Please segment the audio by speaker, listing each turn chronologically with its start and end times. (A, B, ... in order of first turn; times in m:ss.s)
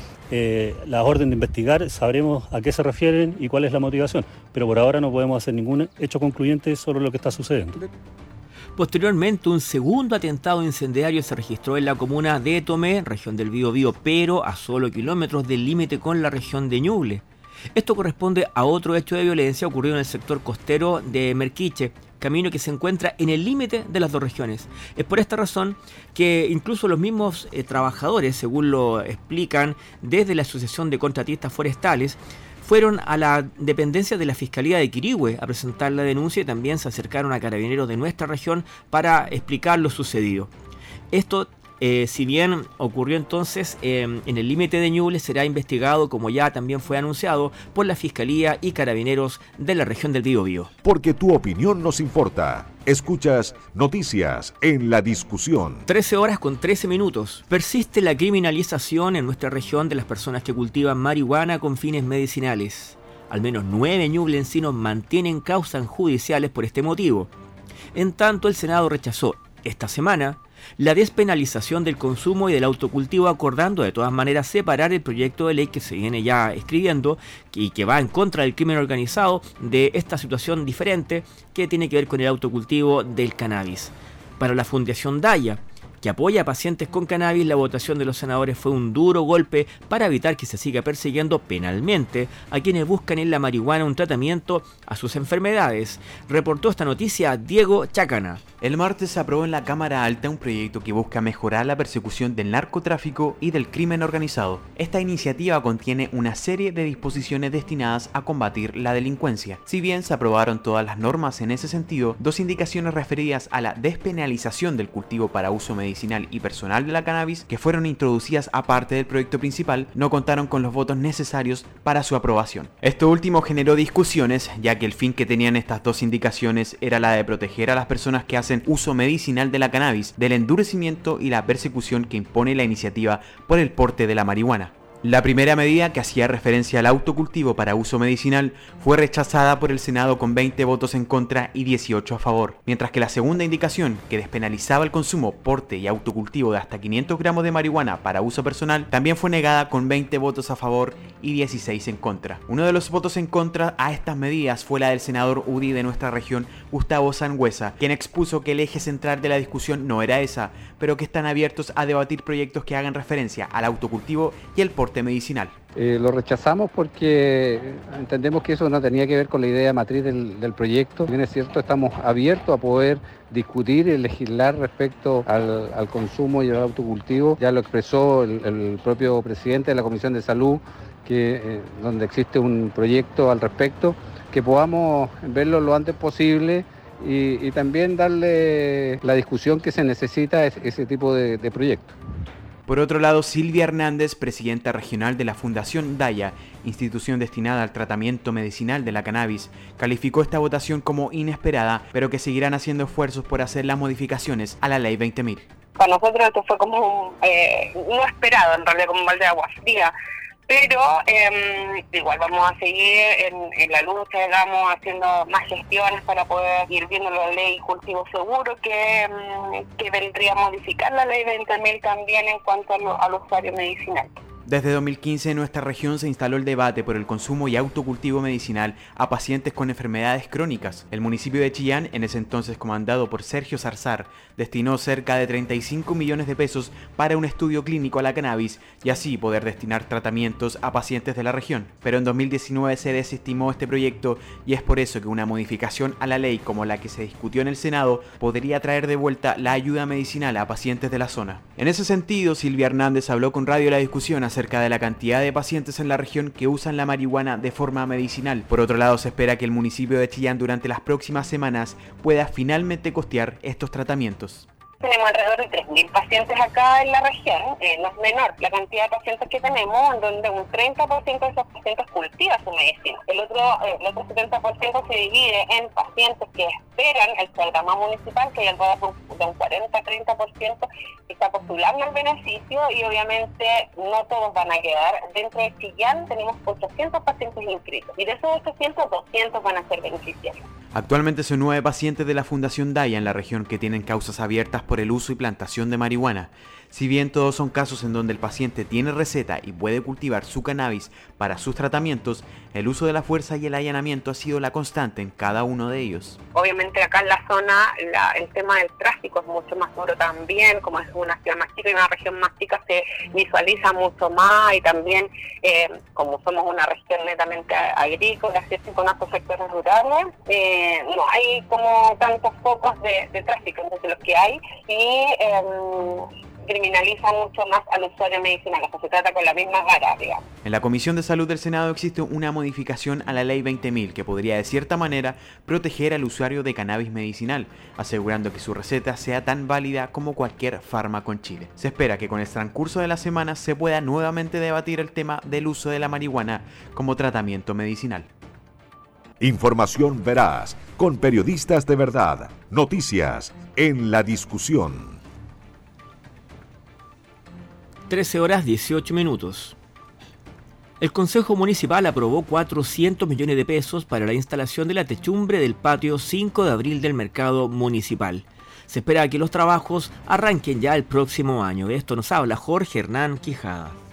0:00.3-0:07.8 A
0:08.8-0:17.2 B
0:17.7-0:40.5 B
0:41.1-0:50.7 B
0:50.8-0:55.8 C
0:55.9-1:07.3 B
1:07.9-1:38.4 B
1:38.6-2:45.5 D
2:45.8-3:12.0 E
3:12.7-3:25.5 D
3:25.8-3:29.9 F
3:30.5-3:44.2 F
3:44.4-4:24.4 D
4:24.8-4:50.4 F
4:50.7-5:06.2 D
5:06.3-5:30.2 F
5:30.4-5:48.1 D
5:49.2-5:55.0 C
5:57.9-5:59.6 B
6:00.8-6:13.8 B